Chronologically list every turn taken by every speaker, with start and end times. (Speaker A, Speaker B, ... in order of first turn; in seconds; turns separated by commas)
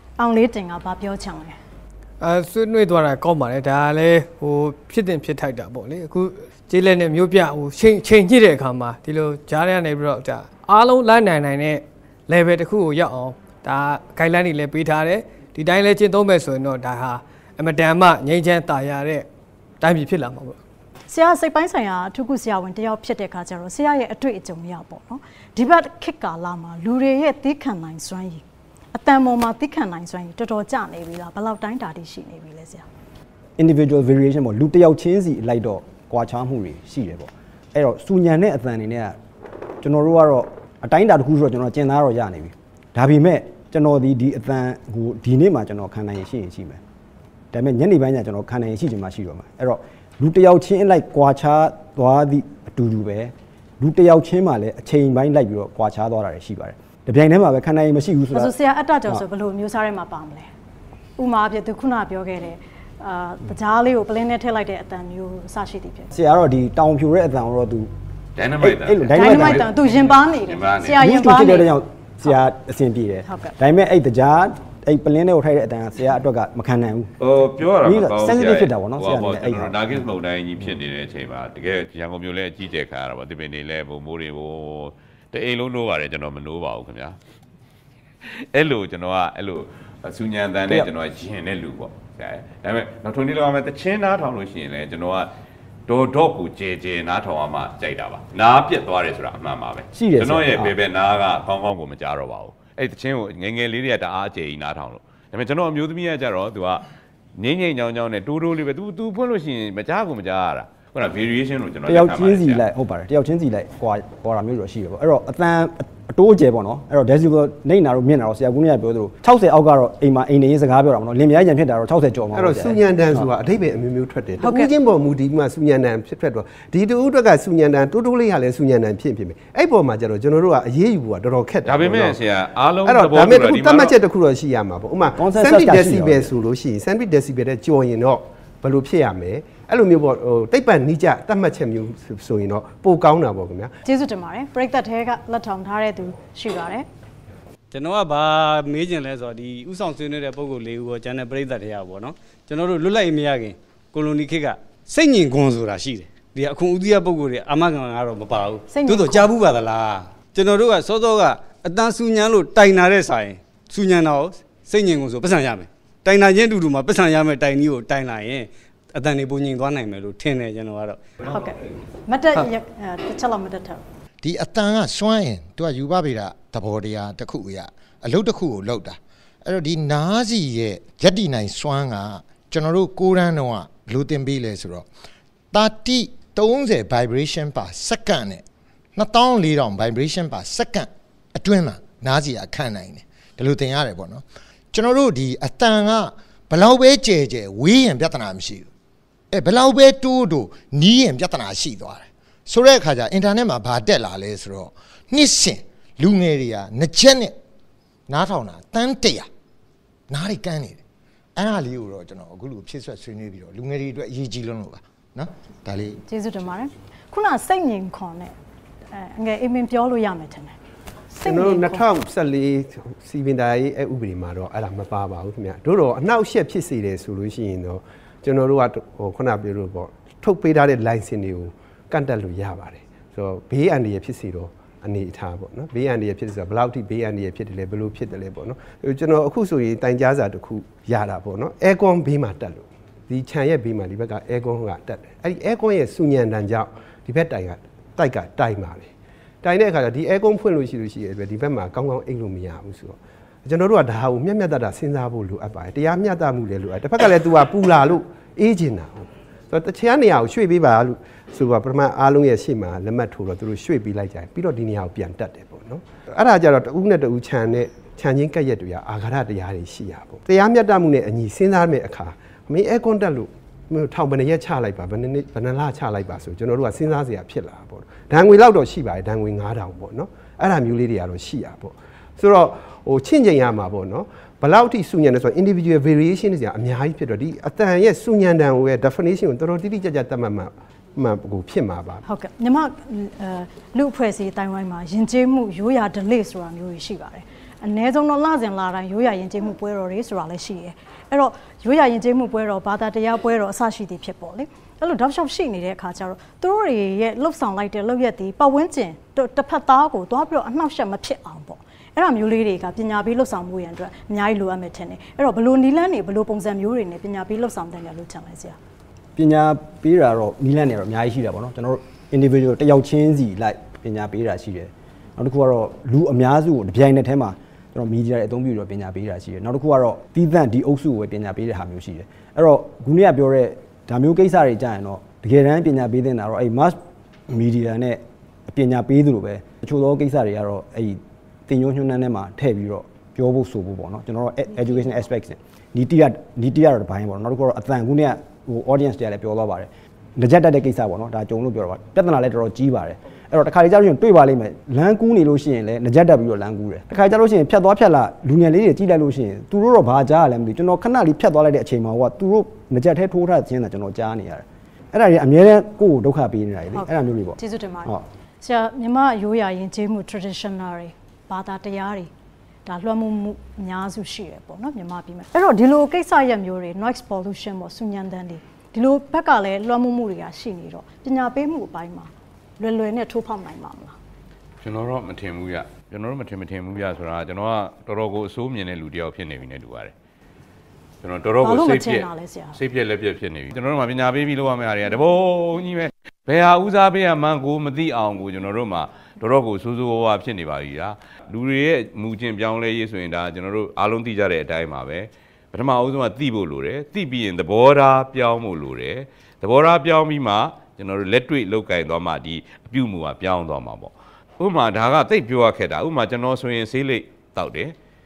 Speaker A: 0.2-1.6, Speaker B: 2.2-19.3, Speaker B: 19.8-20.6, Speaker A: 21.1-32.9, Speaker C: 33.6-39.2, Speaker C: 39.8-46.8, Speaker C: 47.5-58.5, Speaker A: 58.3-60.5, Speaker A: 61.2-66.1, Speaker C: 66.1-67.9, Speaker D: 68.4-71.0, Speaker C: 68.6-69.7, Speaker A: 69.1-71.7, Speaker C: 71.0-77.1, Speaker A: 73.2-73.6, Speaker D: 77.2-87.2, Speaker C: 77.8-79.8, Speaker D: 88.3-95.3, Speaker D: 95.9-106.8, Speaker C: 99.9-100.8, Speaker D: 107.4-112.6, Speaker C: 111.9-123.3, Speaker E: 122.3-132.2, Speaker A: 124.4-124.7, Speaker D: 131.6-134.0, Speaker E: 132.8-143.7, Speaker C: 135.2-136.3, Speaker A: 143.8-146.9, Speaker F: 147.7-158.6, Speaker A: 158.7-159.3, Speaker F: 159.2-165.7, Speaker F: 166.3-168.4, Speaker F: 169.0-171.0, Speaker A: 171.2-173.8, Speaker G: 174.2-184.9, Speaker G: 185.5-188.4, Speaker G: 189.0-198.7, Speaker G: 199.3-207.4, Speaker G: 208.1-209.3, Speaker G: 210.1-210.8, Speaker G: 211.4-216.0, Speaker A: 216.1-218.3, Speaker A: 218.9-220.6, Speaker A: 221.1-221.8, Speaker E: 221.2-248.9, Speaker E: 249.4-292.0, Speaker A: 292.1-318.6, Speaker C: 319.2-336.8, Speaker C: 337.3-368.0, Speaker A: 366.7-372.1, Speaker A: 372.7-384.0, Speaker D: 384.6-389.9, Speaker D: 391.0-417.8, Speaker A: 391.4-392.6